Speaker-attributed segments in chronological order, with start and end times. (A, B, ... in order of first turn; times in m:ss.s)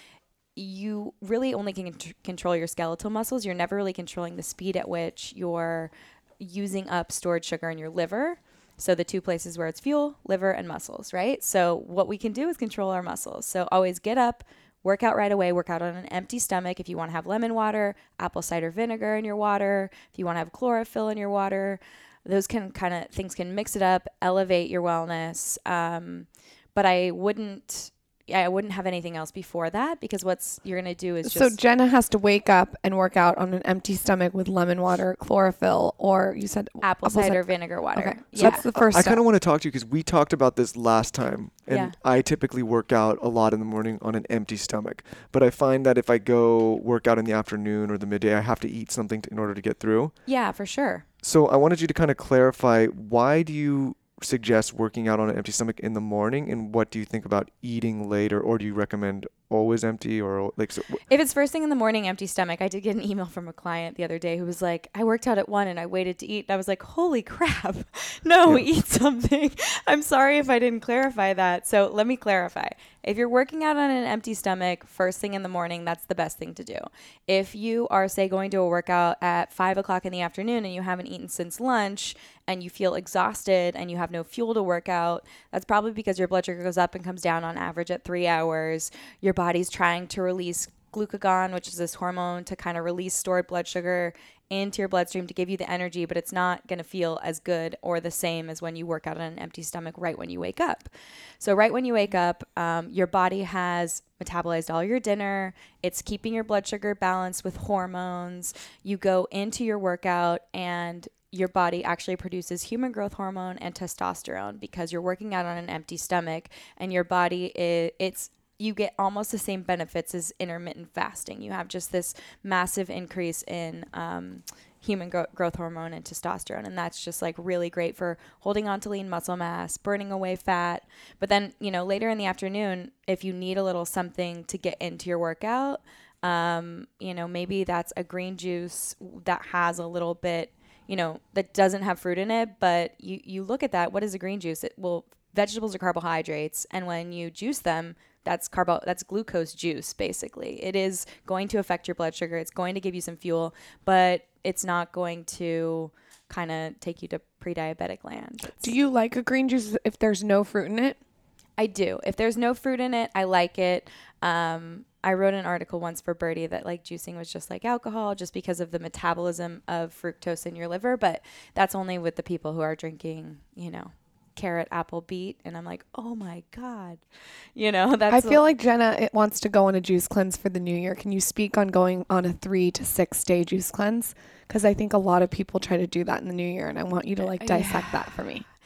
0:00.6-0:31.5 A
0:31.2-0:37.4 B
0:36.8-0:38.6 A
0:37.9-0:39.2 B
0:38.4-0:50.1 C
0:41.7-0:42.0 A
0:50.2-0:51.0 A
0:51.2-1:01.0 C
1:01.1-1:40.9 A
1:41.4-2:38.7 A
2:38.6-2:41.0 B
2:41.6-2:57.0 A
2:57.6-2:58.4 A
2:58.1-3:08.4 B
3:07.3-3:08.1 A